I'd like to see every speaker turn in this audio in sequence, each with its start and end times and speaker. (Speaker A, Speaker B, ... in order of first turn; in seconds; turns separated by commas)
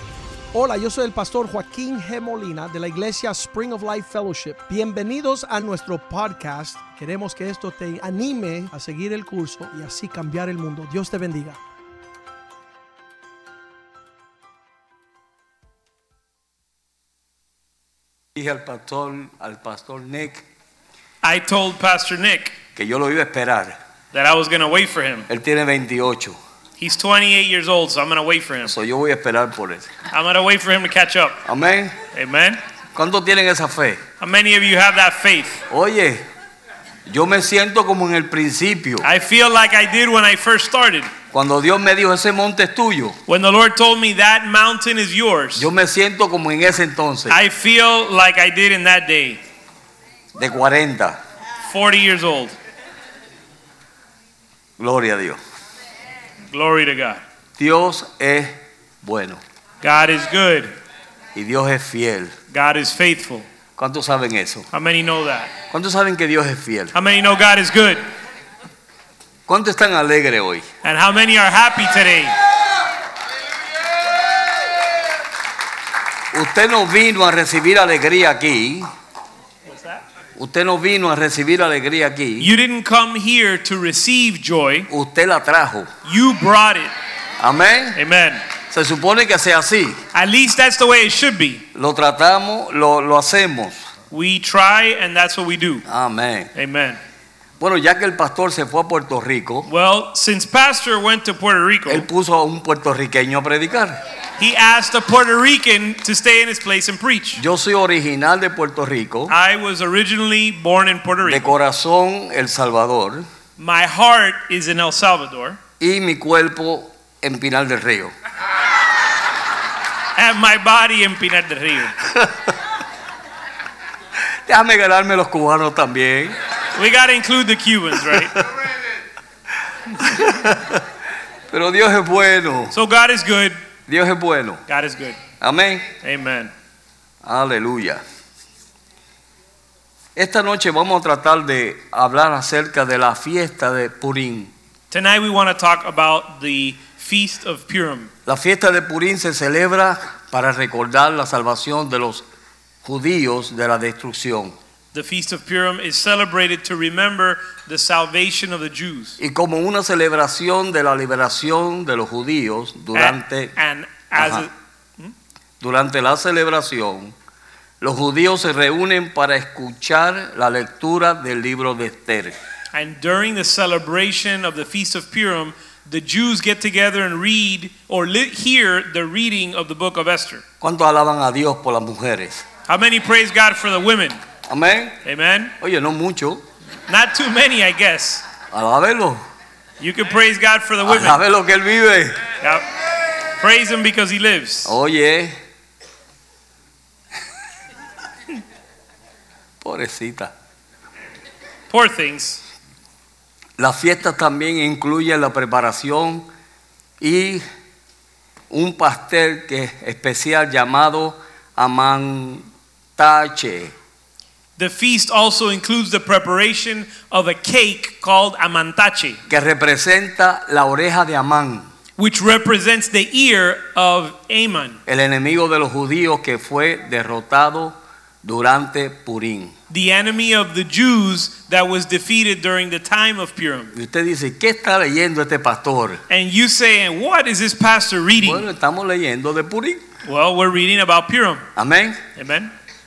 Speaker A: 0.5-11.6, Speaker B: 18.3-20.4, Speaker C: 21.2-22.5, Speaker B: 22.7-23.8, Speaker C: 24.1-25.3, Speaker B: 25.3-26.4, Speaker C: 26.8-28.7, Speaker B: 28.6-29.9, Speaker C: 30.1-31.4, Speaker B: 31.4-31.9, Speaker C: 32.1-32.6, Speaker B: 32.9-34.0, Speaker C: 34.2-35.6, Speaker B: 35.7-36.2, Speaker B: 37.1-39.0, Speaker C: 39.0-41.1, Speaker B: 41.3-43.2, Speaker C: 43.3-45.7, Speaker B: 45.6-47.4, Speaker C: 47.3-49.4, Speaker B: 50.3-51.2, Speaker C: 51.6-52.5, Speaker B: 54.8-55.4, Speaker C: 56.5-57.2, Speaker B: 57.6-59.4, Speaker C: 59.8-60.7, Speaker B: 61.3-62.3, Speaker C: 62.5-63.5, Speaker B: 63.8-64.7, Speaker C: 64.7-65.5, Speaker B: 65.7-66.9, Speaker C: 66.9-68.0, Speaker B: 69.5-70.7, Speaker C: 70.8-72.3, Speaker B: 76.3-78.9, Speaker C: 79.7-80.0, Speaker B: 80.4-82.5, Speaker C: 82.4-84.9, Speaker B: 84.9-85.9, Speaker C: 86.0-86.9, Speaker B: 87.4-88.0, Speaker C: 87.9-88.4, Speaker B: 88.7-90.0, Speaker C: 90.1-91.6, Speaker B: 91.7-93.8, Speaker C: 94.1-95.8, Speaker B: 95.9-96.5, Speaker C: 96.5-97.0, Speaker B: 97.6-99.7, Speaker C: 99.7-102.1, Speaker B: 101.9-104.0, Speaker C: 104.4-107.4, Speaker B: 107.3-109.3, Speaker C: 109.3-111.5, Speaker B: 111.2-113.2, Speaker C: 113.6-115.6, Speaker B: 115.8-118.1, Speaker C: 120.2-122.0, Speaker B: 122.0-122.5, Speaker B: 124.5-126.3, Speaker C: 126.7-128.4, Speaker B: 129.9-130.8, Speaker B: 131.5-132.7, Speaker C: 132.7-133.6, Speaker B: 133.9-134.6, Speaker C: 134.7-135.2, Speaker B: 135.4-135.8, Speaker C: 136.0-136.5, Speaker B: 137.2-138.0, Speaker B: 140.2-144.5, Speaker C: 144.9-148.1, Speaker B: 148.2-152.2, Speaker B: 152.8-154.6, Speaker C: 154.9-159.2, Speaker B: 159.2-163.5, Speaker C: 162.9-165.1, Speaker B: 164.1-164.4, Speaker B: 165.6-167.1, Speaker B: 167.8-172.3, Speaker C: 172.7-180.4, Speaker B: 180.6-182.4, Speaker C: 182.7-184.2, Speaker B: 184.5-184.9, Speaker C: 185.0-185.5, Speaker B: 185.6-186.4, Speaker C: 186.9-188.2, Speaker B: 188.5-189.2, Speaker C: 189.8-191.2, Speaker B: 190.8-192.2, Speaker C: 192.4-192.7, Speaker C: 193.4-194.7, Speaker B: 194.6-195.3, Speaker B: 199.6-200.3, Speaker C: 201.7-202.4, Speaker B: 203.6-206.2, Speaker B: 207.0-207.4, Speaker B: 208.5-213.7, Speaker C: 214.6-219.2, Speaker B: 219.3-221.7, Speaker C: 222.0-224.8, Speaker B: 224.9-229.5, Speaker C: 229.7-233.7, Speaker B: 233.7-236.0, Speaker C: 236.1-238.4, Speaker B: 238.2-239.8, Speaker C: 240.0-241.4, Speaker B: 241.6-242.0, Speaker C: 242.2-242.5